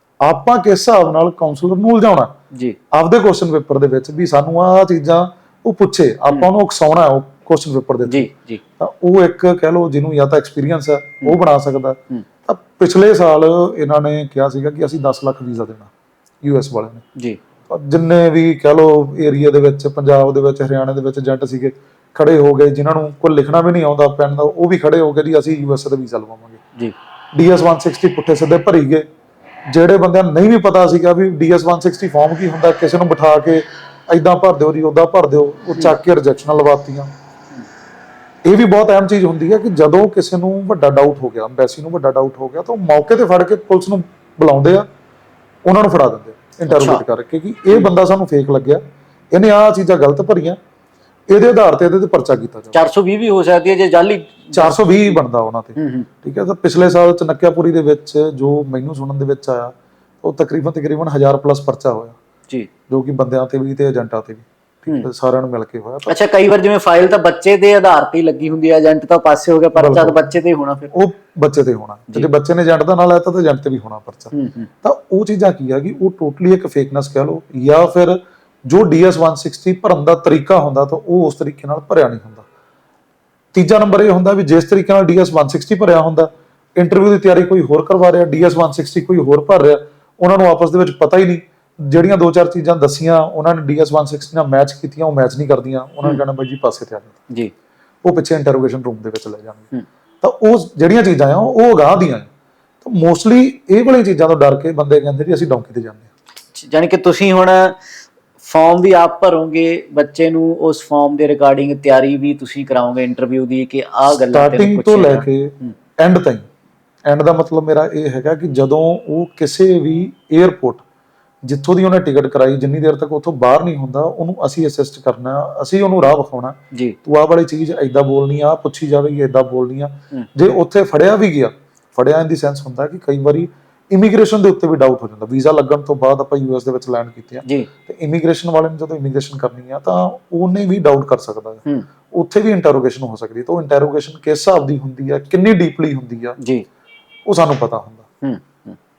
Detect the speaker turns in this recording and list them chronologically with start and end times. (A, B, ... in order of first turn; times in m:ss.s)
0:00.2-0:02.4 A
0:02.5-0:02.8 B
0:02.9-0:15.9 A
0:08.1-0:08.6 B
0:16.4-0:17.0 A
0:17.7-0:26.6 A
0:27.3-0:29.0 A
0:29.7-0:37.1 A
0:38.4-0:44.9 A
0:45.6-0:48.8 A
0:46.7-0:47.0 B
0:49.3-0:50.6 A
0:51.3-0:52.8 A
0:52.7-0:54.8 B
0:54.5-1:02.2 A
0:55.8-0:56.1 B
1:02.9-1:06.2 A
1:06.1-1:10.9 B
1:09.8-1:10.2 A
1:10.9-1:14.3 A
1:14.3-1:14.7 B
1:14.8-1:22.5 A
1:23.5-1:37.2 A
1:38.0-1:39.7 A
1:40.2-1:42.3 A
1:42.8-1:46.1 A
1:46.5-1:47.8 B
1:48.4-1:55.7 B
1:54.1-1:56.5 A
1:57.1-2:00.8 A
2:01.4-2:26.4 A
2:26.4-2:26.6 B
2:27.3-2:28.0 A
2:28.2-2:28.8 B